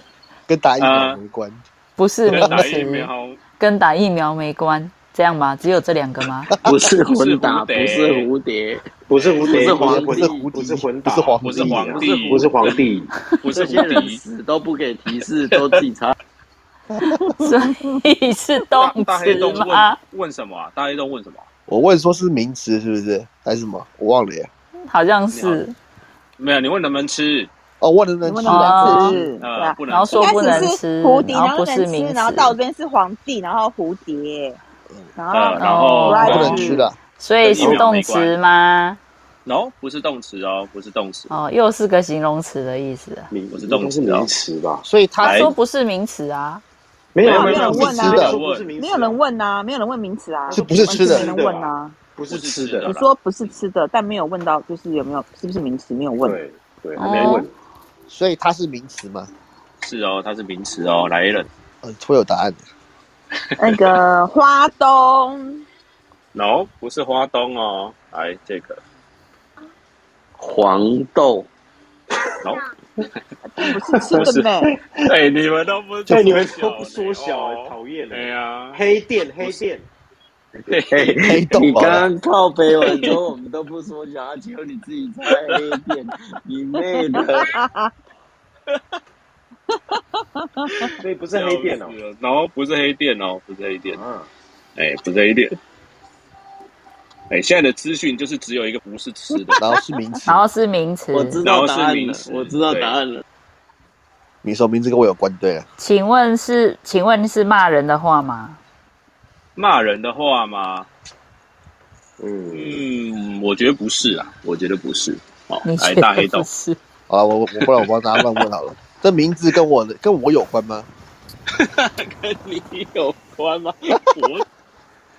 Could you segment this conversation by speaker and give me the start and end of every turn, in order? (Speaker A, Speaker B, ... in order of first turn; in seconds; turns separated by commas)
Speaker A: 0.5-1.6, Speaker B: 0.8-1.2, Speaker C: 2.0-6.5, Speaker B: 2.3-3.4, Speaker A: 2.3-2.7, Speaker D: 6.6-8.8, Speaker B: 7.1-8.3, Speaker E: 9.1-13.1, Speaker D: 9.4-10.5, Speaker A: 9.6-12.2, Speaker B: 11.4-12.9, Speaker B: 13.4-14.2, Speaker D: 13.5-16.1, Speaker B: 15.5-15.8, Speaker A: 17.1-17.3, Speaker C: 17.4-20.0, Speaker B: 18.7-21.5, Speaker A: 21.7-24.5, Speaker C: 24.9-25.8, Speaker B: 25.3-25.6, Speaker B: 26.4-27.5, Speaker A: 27.8-29.3, Speaker F: 28.2-34.6, Speaker C: 28.4-29.2, Speaker B: 29.4-30.7, Speaker C: 29.9-32.5, Speaker F: 35.2-36.9, Speaker B: 35.3-36.7, Speaker C: 35.6-39.0, Speaker A: 36.1-37.0, Speaker B: 37.4-38.4, Speaker E: 37.6-37.9, Speaker B: 39.5-41.3, Speaker C: 41.3-43.3, Speaker E: 43.3-44.9, Speaker B: 43.5-44.3, Speaker A: 44.9-45.5, Speaker B: 45.2-45.5, Speaker C: 45.2-46.6, Speaker E: 47.1-49.2, Speaker B: 47.2-48.7, Speaker F: 47.3-52.0, Speaker A: 47.8-48.4, Speaker E: 50.5-52.9, Speaker A: 50.5-51.3, Speaker B: 52.3-53.1, Speaker F: 52.9-56.4, Speaker E: 56.2-57.5, Speaker C: 57.0-57.5, Speaker A: 58.1-59.3, Speaker B: 59.8-61.5, Speaker A: 61.8-62.6, Speaker F: 63.6-65.6, Speaker B: 66.3-68.8, Speaker D: 70.4-71.5, Speaker F: 73.5-74.7, Speaker E: 73.7-75.1, Speaker B: 74.1-74.4, Speaker B: 75.0-78.8, Speaker E: 76.1-79.9, Speaker D: 80.7-87.6, Speaker B: 80.7-81.1, Speaker A: 81.2-82.1, Speaker B: 82.8-83.2, Speaker B: 85.5-85.8, Speaker F: 87.4-87.9, Speaker F: 90.4-90.9, Speaker B: 90.8-94.0, Speaker E: 91.0-92.0, Speaker E: 93.9-94.3, Speaker B: 94.8-95.6, Speaker B: 97.3-99.7, Speaker A: 99.6-100.5, Speaker C: 100.3-101.4, Speaker D: 101.1-103.2, Speaker B: 101.4-103.0, Speaker A: 104.4-105.7, Speaker C: 105.8-108.6, Speaker B: 109.6-110.9, Speaker E: 112.2-112.8, Speaker B: 112.5-116.5, Speaker C: 115.6-116.8, Speaker A: 117.1-120.9, Speaker B: 117.6-118.4, Speaker B: 121.6-124.5